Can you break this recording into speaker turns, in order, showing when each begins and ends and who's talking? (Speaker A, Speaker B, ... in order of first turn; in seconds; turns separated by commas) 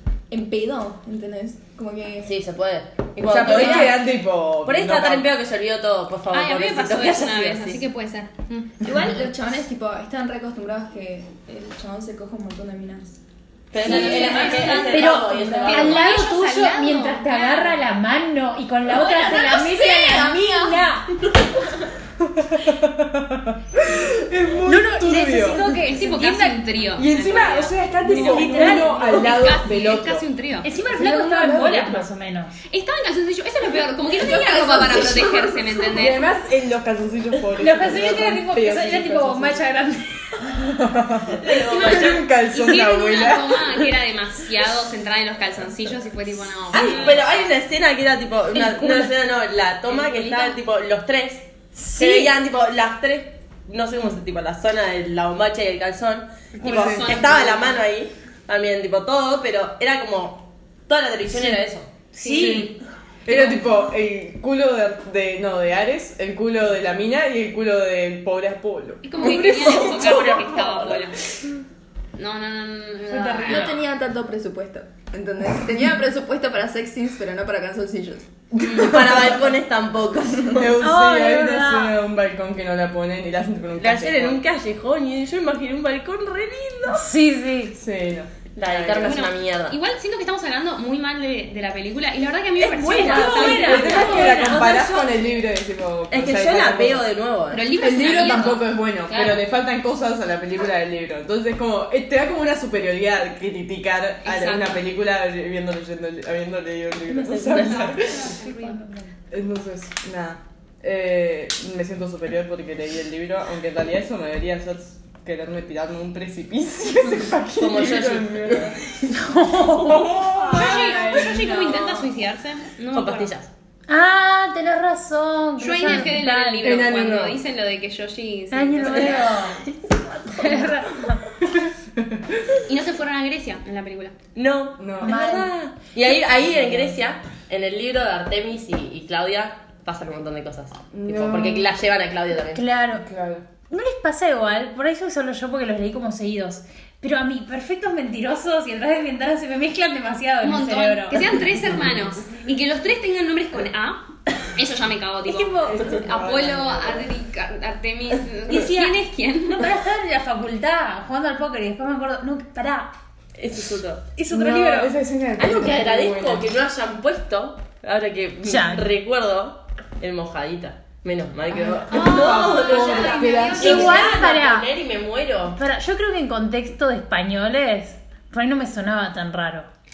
Speaker A: 0.3-2.3, Speaker B: 2.2-4.1, Speaker C: 3.2-5.3, Speaker D: 3.5-3.8, Speaker B: 4.6-7.8, Speaker E: 6.3-8.9, Speaker A: 8.8-13.2, Speaker B: 13.7-16.0, Speaker E: 13.8-17.8, Speaker A: 13.8-15.9, Speaker D: 13.9-21.1, Speaker A: 18.8-21.7, Speaker C: 22.2-25.8, Speaker D: 24.6-26.6, Speaker E: 25.8-30.8, Speaker C: 26.9-30.2, Speaker D: 28.1-29.4, Speaker D: 30.6-32.5, Speaker C: 30.9-32.1, Speaker E: 32.7-36.3, Speaker A: 34.0-36.1, Speaker C: 35.9-39.6, Speaker D: 37.5-40.6, Speaker C: 40.5-43.8, Speaker B: 41.3-42.2, Speaker E: 41.5-47.5, Speaker B: 46.7-61.9, Speaker D: 48.5-49.1, Speaker E: 49.9-50.6, Speaker D: 51.7-52.4, Speaker E: 56.5-57.8, Speaker C: 56.6-57.1, Speaker D: 61.3-61.6, Speaker D: 62.1-62.7, Speaker E: 62.2-62.7, Speaker C: 62.2-62.7, Speaker C: 63.2-69.4, Speaker D: 63.3-63.6, Speaker E: 69.0-71.2, Speaker B: 69.2-71.1, Speaker E: 72.1-73.8, Speaker D: 73.1-73.8, Speaker A: 73.5-78.3, Speaker C: 78.6-79.5, Speaker B: 78.7-80.7, Speaker C: 80.5-84.4, Speaker D: 80.8-81.9, Speaker B: 83.8-87.1, Speaker D: 86.9-87.8, Speaker C: 87.7-89.3, Speaker B: 88.5-89.8, Speaker E: 88.9-94.4, Speaker B: 92.6-95.1, Speaker D: 92.7-94.9, Speaker C: 93.1-97.1, Speaker B: 96.1-97.7, Speaker E: 97.5-99.3, Speaker C: 97.7-108.3, Speaker E: 104.2-104.8, Speaker B: 107.1-108.2, Speaker E: 107.5-108.8, Speaker D: 108.3-109.1, Speaker C: 109.3-118.8, Speaker B: 117.6-119.1, Speaker D: 119.1-120.3, Speaker B: 119.7-120.8, Speaker C: 119.8-121.5, Speaker E: 120.5-123.3, Speaker D: 120.9-121.5, Speaker B: 122.9-123.5, Speaker D: 123.9-126.8, Speaker E: 125.6-129.6, Speaker C: 126.6-127.4, Speaker D: 128.5-129.7, Speaker B: 128.8-131.0, Speaker D: 130.3-131.2, Speaker C: 131.9-132.4, Speaker E: 132.7-134.1, Speaker B: 134.3-142.7, Speaker C: 134.8-135.2, Speaker D: 135.0-135.5, Speaker C: 136.5-136.8, Speaker C: 140.9-141.7, Speaker D: 142.5-143.0, Speaker C: 142.9-143.5, Speaker D: 143.7-151.6, Speaker E: 150.4-159.7, Speaker B: 155.4-156.1, Speaker C: 155.7-157.1, Speaker D: 158.5-158.9, Speaker D: 159.5-162.9, Speaker B: 163.3-164.1, Speaker D: 164.2-164.9, Speaker C: 164.3-166.5, Speaker B: 165.4-175.6, Speaker D: 168.4-168.9, Speaker C: 171.6-174.0, Speaker E: 171.9-174.3, Speaker D: 173.5-174.7, Speaker D: 175.6-179.7